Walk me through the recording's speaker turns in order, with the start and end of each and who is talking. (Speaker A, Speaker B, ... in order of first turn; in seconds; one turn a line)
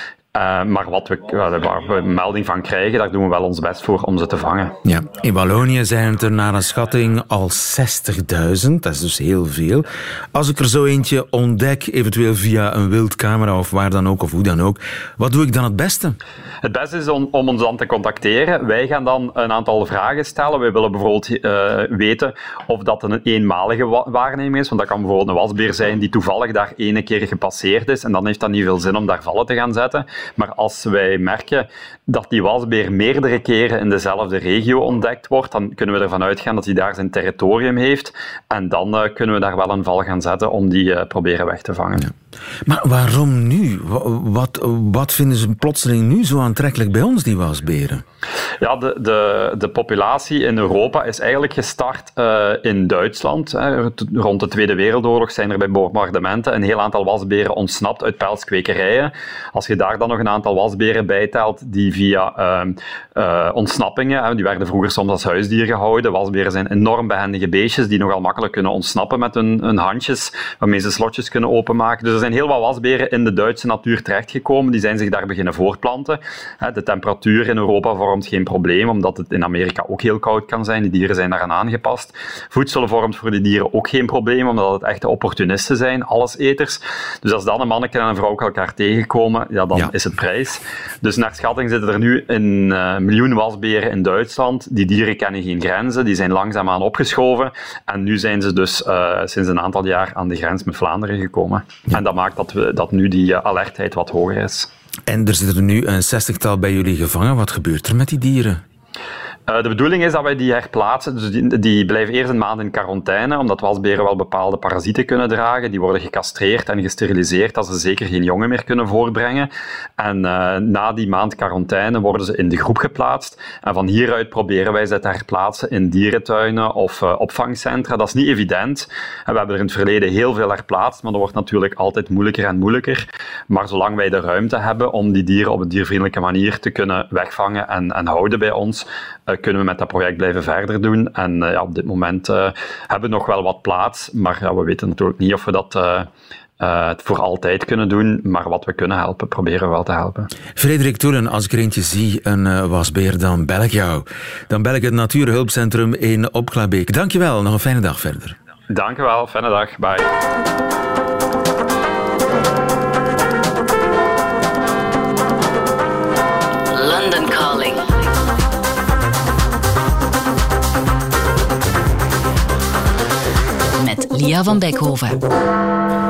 Speaker A: 0.3-4.8
Speaker B: 4.8-16.2
Speaker A: 16.6-42.1
Speaker B: 42.6-48.0
Speaker A: 48.6-104.7
Speaker B: 105.1-108.6
Speaker A: 109.5-146.1
Speaker A: 146.6-150.3
Speaker B: 150.6-158.3
Speaker A: 158.7-160.0
Speaker C: 166.7-168.0
Speaker C: 173.8-175.2